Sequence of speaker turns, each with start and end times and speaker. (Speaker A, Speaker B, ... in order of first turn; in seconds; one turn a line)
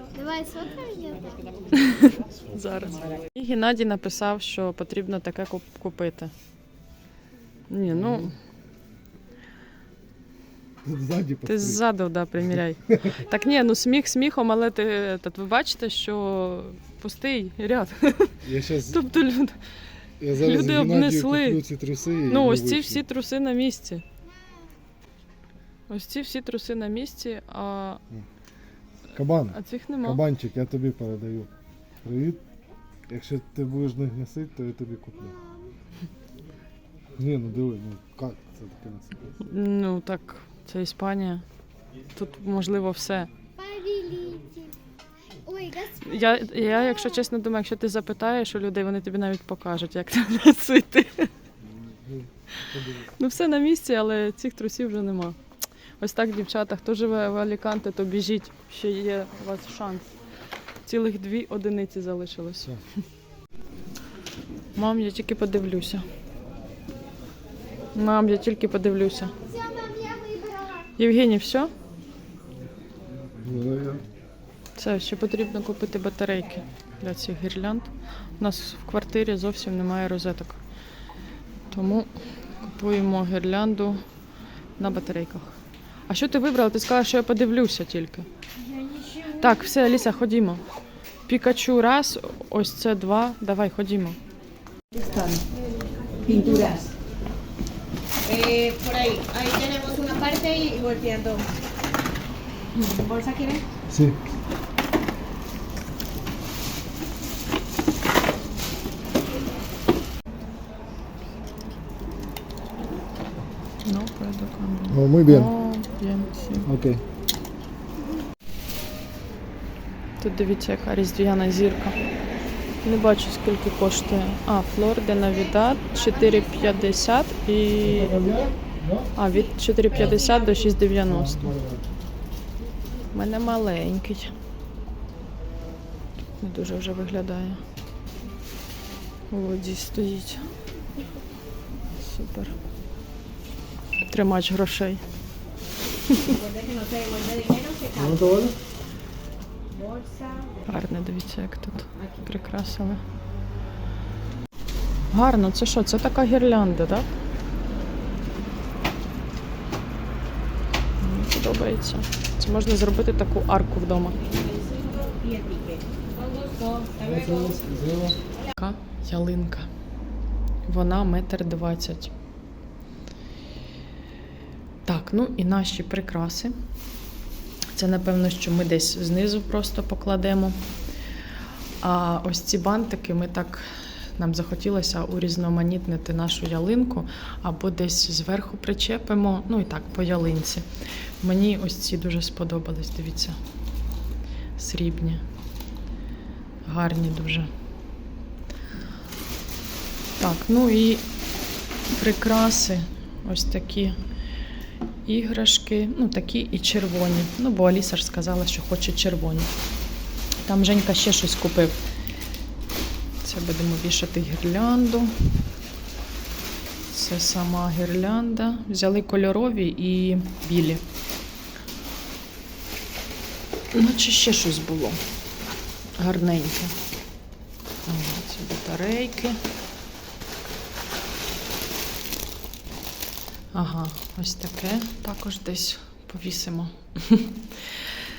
Speaker A: 0.1-1.5
Speaker B: 1.7-6.3
Speaker C: 2.3-2.6
Speaker B: 7.7-8.3
Speaker C: 7.9-8.3
Speaker C: 10.8-11.8
Speaker B: 11.4-19.6
Speaker C: 12.9-13.2
Speaker C: 18.4-19.0
Speaker C: 20.2-23.1
Speaker B: 20.4-21.6
Speaker B: 22.3-24.1
Speaker B: 25.9-28.0
Speaker C: 29.1-31.5
Speaker B: 29.5-30.2
Speaker C: 32.0-32.4
Speaker C: 33.1-35.4
Speaker C: 37.2-39.3
Speaker B: 39.5-41.4
Speaker B: 42.1-43.3
Speaker A: 43.6-44.8
Speaker A: 45.5-47.2
Speaker B: 46.0-51.3
Speaker C: 51.9-53.1
Speaker B: 53.2-55.4
Speaker B: 56.0-60.1
Speaker B: 60.9-62.8
Speaker B: 64.8-66.0
Speaker B: 68.0-69.3
Speaker A: 69.4-70.9
Speaker B: 71.0-71.7
Speaker C: 73.4-74.0
Speaker B: 74.8-80.6
Speaker B: 81.7-82.1
Speaker B: 82.6-84.0
Speaker B: 84.8-85.6
Speaker B: 86.1-88.3
Speaker A: 89.0-89.4
Speaker B: 89.3-90.6
Speaker B: 91.3-94.2
Speaker D: 96.3-96.8
Speaker D: 98.3-101.4
Speaker D: 102.9-103.6
Speaker C: 103.9-104.2
Speaker B: 113.8-116.7
Speaker C: 114.9-115.5
Speaker C: 116.7-117.0
Speaker B: 120.2-122.0
Speaker B: 122.8-128.2
Speaker C: 127.8-129.1
Speaker B: 129.2-131.5
Speaker C: 131.0-131.9
Speaker B: 133.1-134.3
Speaker B: 136.4-137.6
Speaker B: 139.3-140.5
Speaker B: 142.0-142.5
Speaker B: 144.1-145.0
Speaker D: 146.4-148.0
Speaker C: 147.9-148.6
Speaker B: 150.7-153.0
Speaker B: 155.1-157.1
Speaker B: 161.0-164.2
Speaker D: 164.4-165.8
Speaker C: 167.0-168.2
Speaker B: 168.5-169.7
Speaker B: 170.7-172.1
Speaker B: 174.9-176.5
Speaker B: 177.7-180.6
Speaker B: 181.8-183.7
Speaker B: 184.2-190.7
Speaker B: 191.2-193.4
Speaker B: 194.6-195.2
Speaker B: 196.7-197.5
Speaker B: 200.2-201.1
Speaker B: 201.9-204.0
Speaker B: 205.1-209.5
Speaker B: 210.4-211.8
Speaker B: 213.2-215.1
Speaker B: 216.9-220.8
Speaker B: 223.7-225.0
Speaker B: 226.0-226.8
Speaker B: 227.9-229.4
Speaker B: 233.5-237.4